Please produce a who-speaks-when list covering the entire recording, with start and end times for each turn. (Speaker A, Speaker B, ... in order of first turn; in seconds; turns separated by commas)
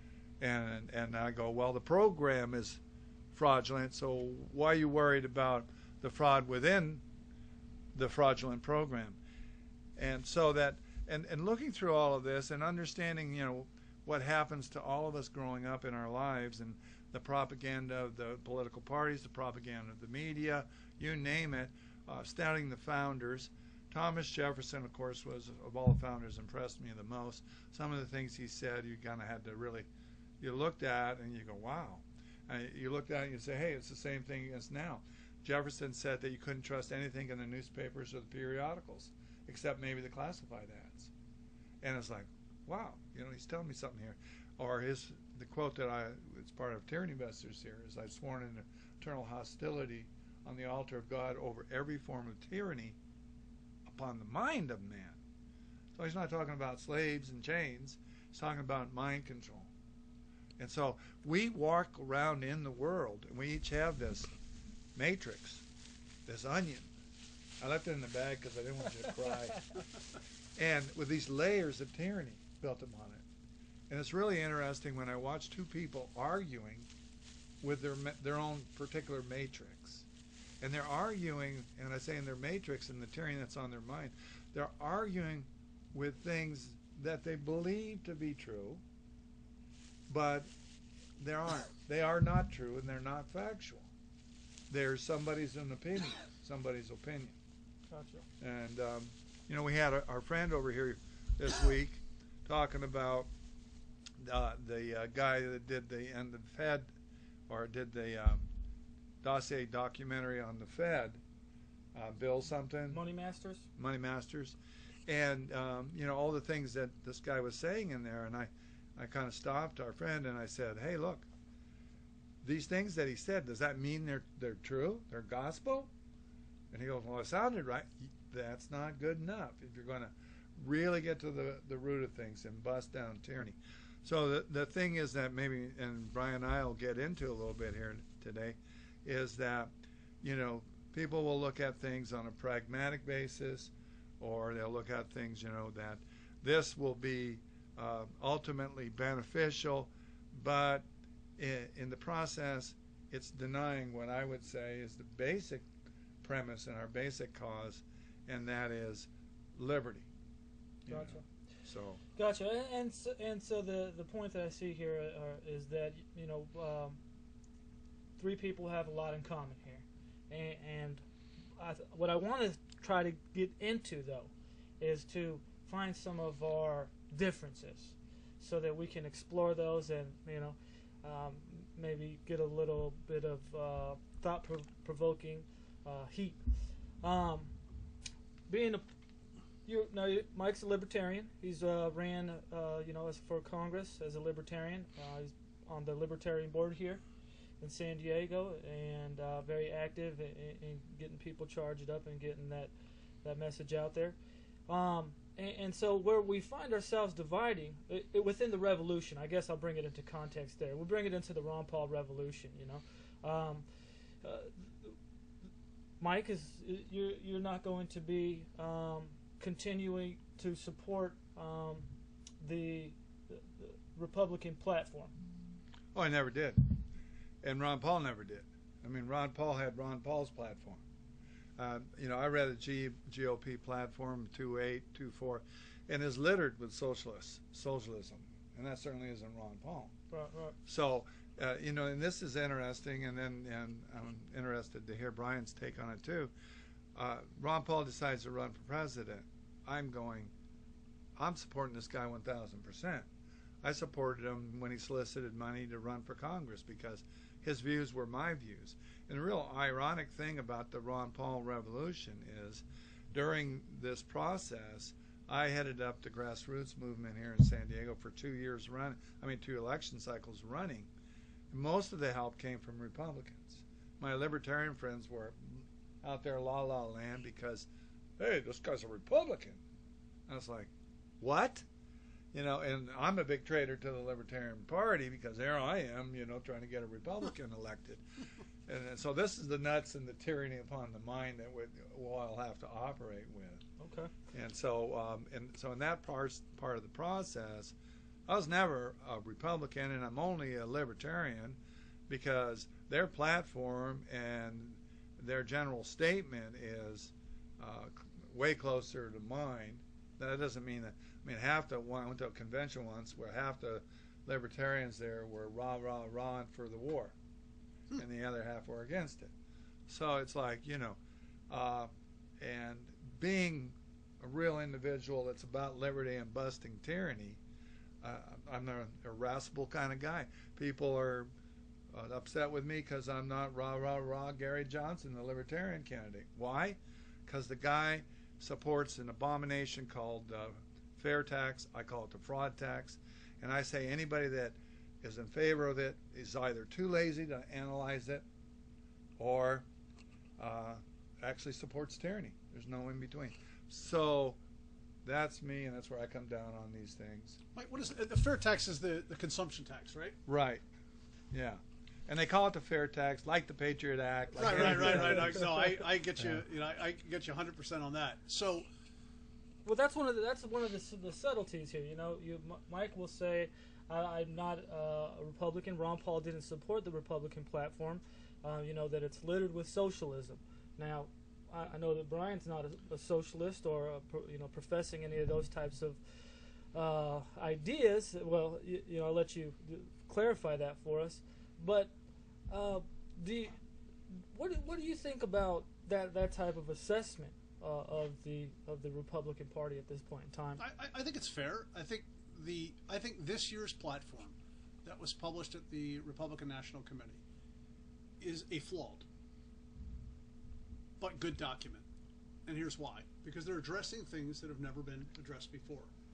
Speaker A: 0.4-2.8, Speaker A: 3.3-7.0, Speaker A: 7.9-9.2, Speaker A: 10.0-29.9, Speaker A: 30.4-41.1, Speaker A: 41.8-53.0, Speaker A: 53.9-55.2, Speaker A: 56.0-59.7, Speaker A: 60.6-64.3, Speaker A: 65.0-65.7, Speaker A: 66.3-66.9, Speaker A: 67.6-69.7, Speaker A: 70.6-73.2, Speaker A: 73.9-76.9, Speaker A: 77.6-80.1, Speaker A: 80.6-88.8, Speaker A: 90.1-90.5, Speaker A: 91.2-93.9, Speaker A: 94.7-97.3, Speaker B: 97.9-98.2, Speaker A: 98.4-103.3, Speaker A: 104.2-106.9, Speaker A: 107.5-108.4, Speaker A: 109.2-111.2, Speaker A: 111.9-113.0, Speaker B: 112.9-113.7, Speaker A: 113.8-114.6, Speaker A: 115.1-121.3, Speaker A: 122.4-125.9, Speaker A: 126.7-139.7, Speaker A: 140.2-150.9, Speaker A: 151.4-155.7, Speaker A: 156.2-160.1, Speaker A: 160.9-162.0, Speaker B: 160.9-161.2, Speaker B: 162.2-167.0, Speaker B: 168.2-171.0, Speaker B: 171.6-186.4, Speaker B: 187.0-187.5, Speaker B: 188.5-188.8, Speaker B: 189.7-197.0, Speaker B: 197.6-202.7, Speaker B: 203.2-204.2, Speaker B: 204.7-213.7, Speaker B: 214.2-214.9, Speaker B: 216.0-221.9, Speaker B: 222.4-225.1, Speaker A: 225.9-226.8, Speaker A: 227.4-230.8, Speaker A: 231.6-239.9, Speaker B: 240.1-240.6, Speaker A: 240.7-246.3, Speaker A: 246.9-250.3, Speaker A: 251.2-253.1, Speaker A: 253.6-270.9, Speaker A: 271.5-277.7, Speaker A: 278.2-279.6, Speaker A: 280.3-281.7, Speaker A: 282.3-288.0, Speaker A: 288.7-293.6, Speaker B: 293.8-294.1, Speaker A: 294.3-297.7, Speaker A: 298.3-301.6, Speaker A: 302.1-317.1, Speaker A: 317.9-319.3, Speaker A: 319.9-321.0, Speaker A: 321.5-327.4, Speaker A: 328.0-331.3, Speaker A: 331.9-348.2, Speaker A: 349.2-349.7, Speaker A: 350.4-354.4, Speaker A: 355.1-357.4, Speaker C: 357.6-360.2, Speaker A: 360.3-360.6, Speaker A: 361.3-365.5, Speaker C: 364.4-368.7, Speaker B: 365.2-365.6, Speaker B: 369.6-391.9, Speaker B: 392.5-393.5, Speaker B: 394.3-400.6, Speaker C: 400.6-407.2, Speaker C: 408.2-409.1, Speaker C: 411.0-411.8, Speaker C: 412.5-415.9